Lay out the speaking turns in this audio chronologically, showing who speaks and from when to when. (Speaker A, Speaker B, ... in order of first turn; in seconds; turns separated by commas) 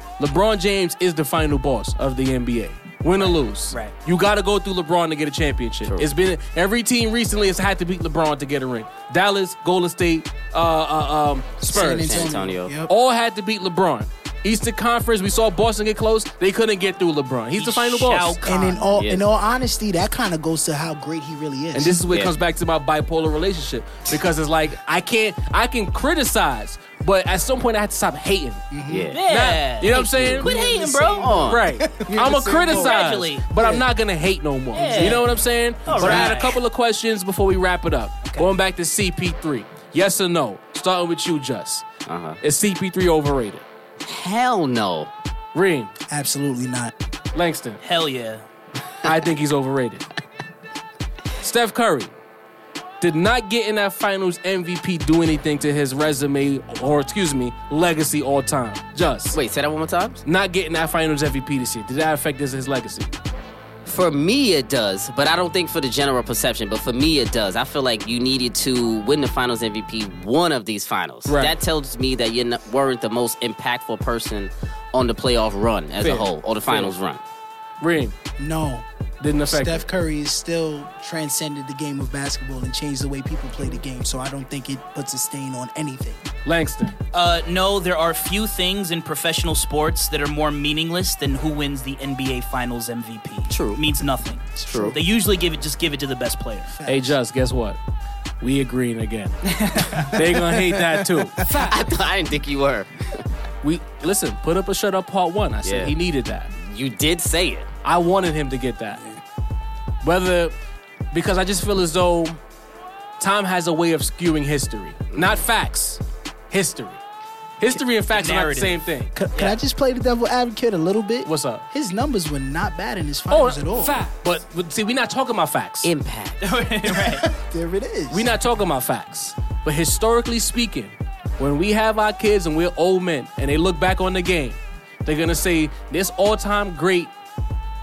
Speaker A: 0.2-18.4, Speaker B: 3.2-3.9, Speaker C: 11.7-12.9, Speaker D: 11.7-12.8, Speaker B: 17.6-18.8, Speaker C: 18.4-22.0, Speaker D: 18.9-19.2, Speaker A: 21.7-28.6, Speaker C: 28.7-29.1, Speaker D: 28.9-29.2, Speaker B: 29.1-31.3, Speaker A: 29.3-30.5, Speaker D: 29.8-30.5, Speaker C: 30.4-33.8, Speaker D: 31.2-31.6, Speaker A: 31.4-41.9, Speaker B: 32.7-33.5, Speaker B: 34.7-35.2, Speaker C: 35.9-36.4, Speaker B: 35.9-36.6, Speaker D: 42.1-42.4, Speaker A: 42.4-43.6, Speaker D: 44.0-45.1, Speaker A: 45.5-45.9, Speaker C: 46.1-46.9, Speaker A: 47.4-47.8, Speaker B: 47.8-48.4, Speaker A: 49.0-50.0, Speaker A: 51.4-52.1, Speaker A: 53.0-59.4, Speaker D: 59.3-60.2, Speaker A: 60.2-63.1, Speaker D: 63.9-77.2, Speaker A: 71.3-71.6, Speaker A: 76.0-76.9, Speaker A: 77.8-78.2, Speaker C: 78.4-78.9, Speaker A: 79.2-79.9, Speaker C: 79.5-86.3, Speaker A: 86.5-87.0, Speaker B: 87.1-96.7, Speaker D: 93.5-93.8, Speaker C: 94.6-95.0, Speaker D: 94.7-95.0, Speaker C: 96.7-97.2, Speaker A: 96.9-97.8, Speaker A: 98.4-101.7, Speaker B: 99.7-100.0, Speaker C: 99.8-101.5, Speaker D: 101.6-103.2, Speaker A: 103.6-106.5, Speaker D: 105.6-105.9, Speaker D: 106.5-107.7, Speaker A: 107.8-109.1, Speaker A: 110.0-110.5, Speaker A: 111.1-112.4, Speaker A: 113.2-117.0, Speaker D: 115.1-115.4, Speaker A: 117.6-119.1, Speaker B: 118.1-119.6, Speaker C: 119.2-124.0, Speaker A: 121.2-121.7, Speaker A: 123.3-125.9, Speaker D: 125.8-126.5, Speaker B: 126.4-127.3, Speaker C: 126.9-128.3, Speaker A: 128.1-137.1